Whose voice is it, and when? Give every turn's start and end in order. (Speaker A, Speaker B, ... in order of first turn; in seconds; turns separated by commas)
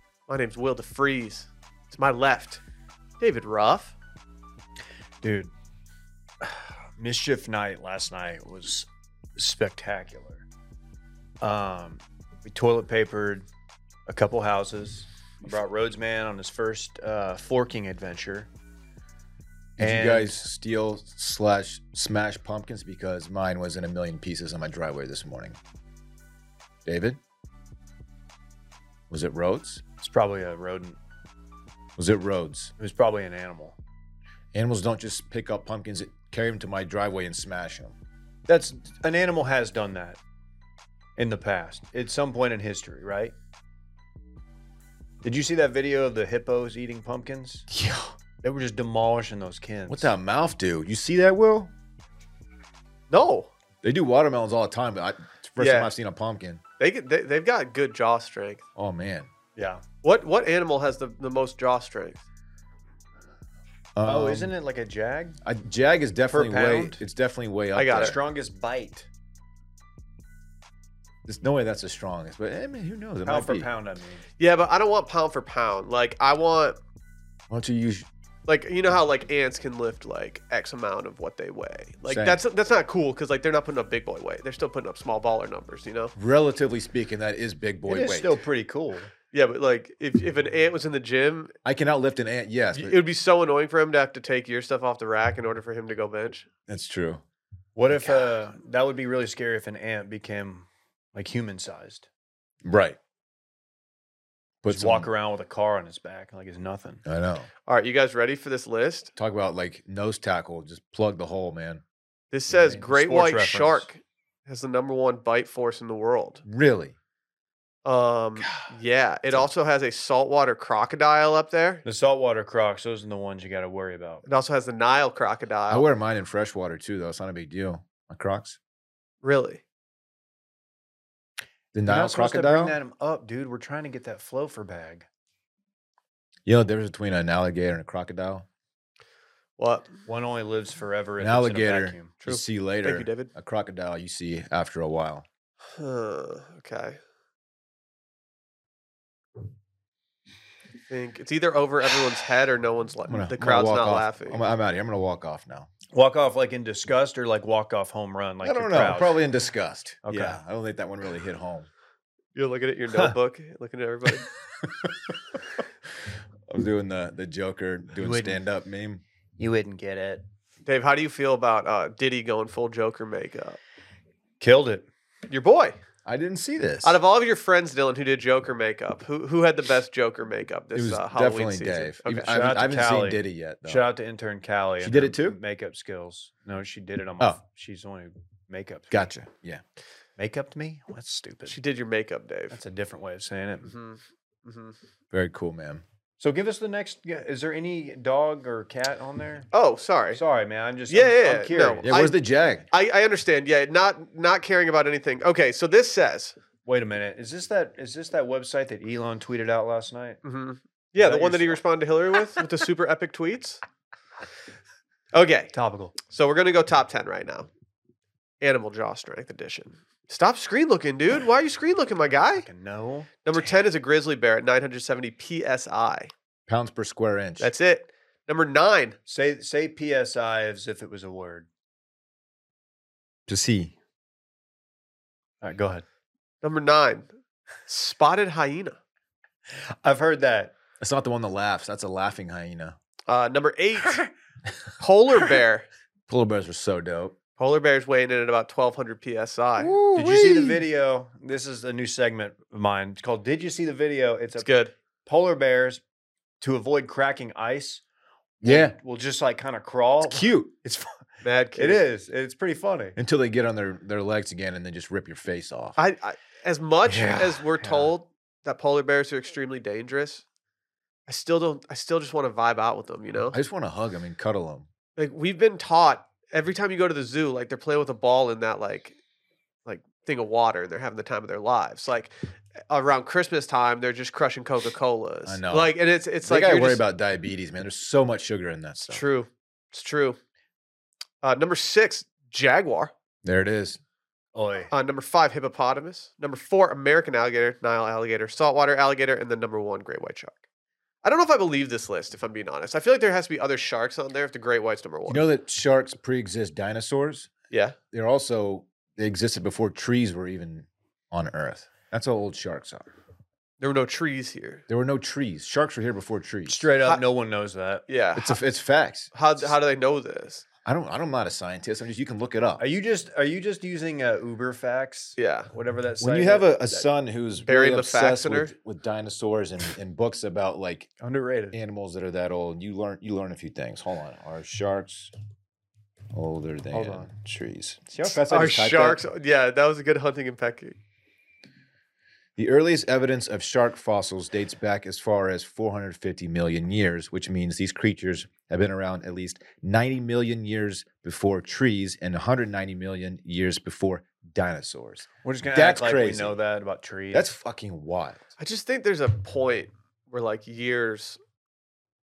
Speaker A: 0.3-2.6, Speaker A: 3.2-4.0, Speaker B: 5.2-5.5, Speaker B: 6.4-10.4, Speaker B: 11.4-13.4, Speaker B: 14.1-18.5, Speaker C: 19.8-25.6, Speaker B: 19.8-20.4, Speaker C: 26.8-27.2, Speaker C: 29.1-29.8, Speaker B: 30.0-31.0, Speaker C: 32.0-32.7, Speaker B: 32.8-33.8, Speaker C: 34.5-37.9, Speaker B: 38.5-40.2, Speaker B: 41.2-43.3, Speaker B: 45.2-47.7, Speaker C: 47.7-48.1, Speaker B: 48.4-50.1, Speaker C: 49.9-51.7, Speaker A: 53.1-53.5, Speaker C: 53.8-56.6, Speaker A: 55.6-55.9, Speaker A: 56.8-58.6, Speaker C: 58.8-59.3, Speaker B: 59.5-59.8, Speaker A: 60.0-62.2, Speaker C: 64.0-64.5, Speaker B: 64.0-65.4, Speaker C: 65.4-68.2, Speaker B: 66.3-67.0, Speaker A: 67.7-68.2, Speaker B: 67.9-69.1, Speaker C: 71.2-73.7, Speaker B: 73.2-74.2, Speaker A: 74.4-76.8, Speaker C: 77.5-78.1, Speaker A: 78.5-86.1, Speaker C: 82.1-82.4, Speaker C: 86.2-88.3, Speaker B: 87.9-89.1, Speaker A: 89.3-91.5, Speaker C: 91.6-93.0, Speaker A: 92.7-96.5, Speaker C: 96.7-97.2, Speaker B: 97.8-102.1, Speaker C: 102.6-103.0, Speaker C: 104.6-105.1, Speaker B: 104.7-107.0, Speaker C: 107.0-107.5, Speaker A: 107.7-109.1, Speaker C: 109.2-111.8, Speaker A: 112.3-116.4, Speaker B: 112.5-113.9, Speaker C: 116.4-116.9, Speaker A: 117.8-121.8, Speaker B: 121.8-124.2, Speaker A: 124.2-125.9, Speaker C: 125.7-128.6, Speaker A: 129.2-129.6, Speaker C: 131.7-132.8, Speaker B: 131.8-135.1, Speaker C: 136.4-138.4, Speaker A: 139.6-139.9, Speaker B: 140.1-142.1, Speaker C: 141.2-145.2, Speaker A: 142.2-143.3, Speaker A: 145.7-147.0, Speaker A: 150.9-154.4, Speaker C: 153.1-155.7, Speaker B: 155.9-159.2, Speaker C: 158.4-161.7, Speaker B: 160.0-160.4, Speaker A: 162.3-164.3, Speaker C: 164.8-165.1, Speaker C: 166.5-169.0, Speaker B: 168.0-168.4, Speaker B: 169.4-170.2, Speaker A: 170.7-173.6, Speaker B: 174.4-174.9, Speaker A: 175.3-175.8, Speaker C: 176.0-177.0, Speaker A: 176.8-182.3, Speaker C: 180.7-183.8, Speaker B: 182.3-189.1, Speaker C: 184.8-185.4, Speaker C: 188.9-189.6, Speaker B: 190.2-191.6, Speaker A: 191.4-192.6, Speaker B: 192.5-193.7, Speaker A: 193.6-194.8, Speaker C: 195.1-195.8, Speaker B: 196.2-199.5, Speaker A: 199.5-200.2, Speaker B: 200.1-201.9, Speaker A: 200.9-202.2, Speaker C: 201.8-202.7, Speaker A: 202.7-206.3, Speaker B: 206.7-210.2, Speaker A: 210.2-213.6, Speaker B: 211.0-211.6, Speaker A: 215.1-217.5, Speaker B: 215.5-215.9, Speaker A: 218.4-222.5, Speaker B: 222.4-223.2, Speaker A: 223.2-226.1, Speaker C: 226.5-227.5, Speaker A: 227.4-229.0, Speaker B: 229.1-231.5, Speaker C: 233.3-233.7, Speaker B: 235.4-235.8, Speaker A: 236.4-237.1, Speaker A: 237.7-238.8, Speaker B: 239.5-240.5, Speaker C: 240.8-242.8, Speaker A: 243.1-244.0, Speaker A: 244.8-245.7, Speaker C: 246.1-247.2, Speaker A: 247.4-249.8, Speaker C: 249.6-250.6, Speaker B: 249.9-254.5, Speaker A: 254.4-254.7, Speaker B: 255.1-255.8, Speaker B: 256.4-257.8, Speaker B: 258.4-260.9, Speaker C: 258.4-258.8, Speaker C: 260.0-260.5, Speaker A: 261.2-261.8, Speaker B: 261.5-263.0, Speaker C: 263.0-265.8, Speaker A: 265.8-270.2, Speaker B: 267.3-267.9, Speaker A: 271.1-273.4, Speaker C: 273.3-274.7, Speaker A: 275.0-278.9, Speaker A: 279.6-282.1, Speaker A: 282.7-286.8, Speaker C: 285.2-289.0, Speaker A: 288.8-290.2, Speaker A: 291.2-292.9, Speaker C: 293.2-293.8, Speaker B: 294.3-294.7, Speaker A: 294.7-300.4, Speaker A: 301.0-305.2, Speaker C: 305.1-307.3, Speaker A: 307.5-307.8, Speaker C: 307.9-312.9, Speaker A: 313.6-314.6, Speaker C: 314.7-316.6, Speaker B: 316.5-317.8, Speaker A: 317.9-318.4, Speaker C: 318.1-319.5, Speaker A: 319.1-320.4, Speaker C: 320.6-322.6, Speaker B: 322.6-326.8, Speaker A: 325.2-325.5, Speaker C: 326.0-330.9, Speaker A: 327.5-328.5, Speaker B: 331.0-331.6, Speaker C: 331.5-335.1, Speaker C: 336.1-339.0, Speaker B: 336.7-337.1, Speaker A: 338.3-340.8, Speaker C: 342.4-356.4, Speaker B: 355.2-357.3, Speaker C: 357.1-358.2, Speaker A: 358.4-361.2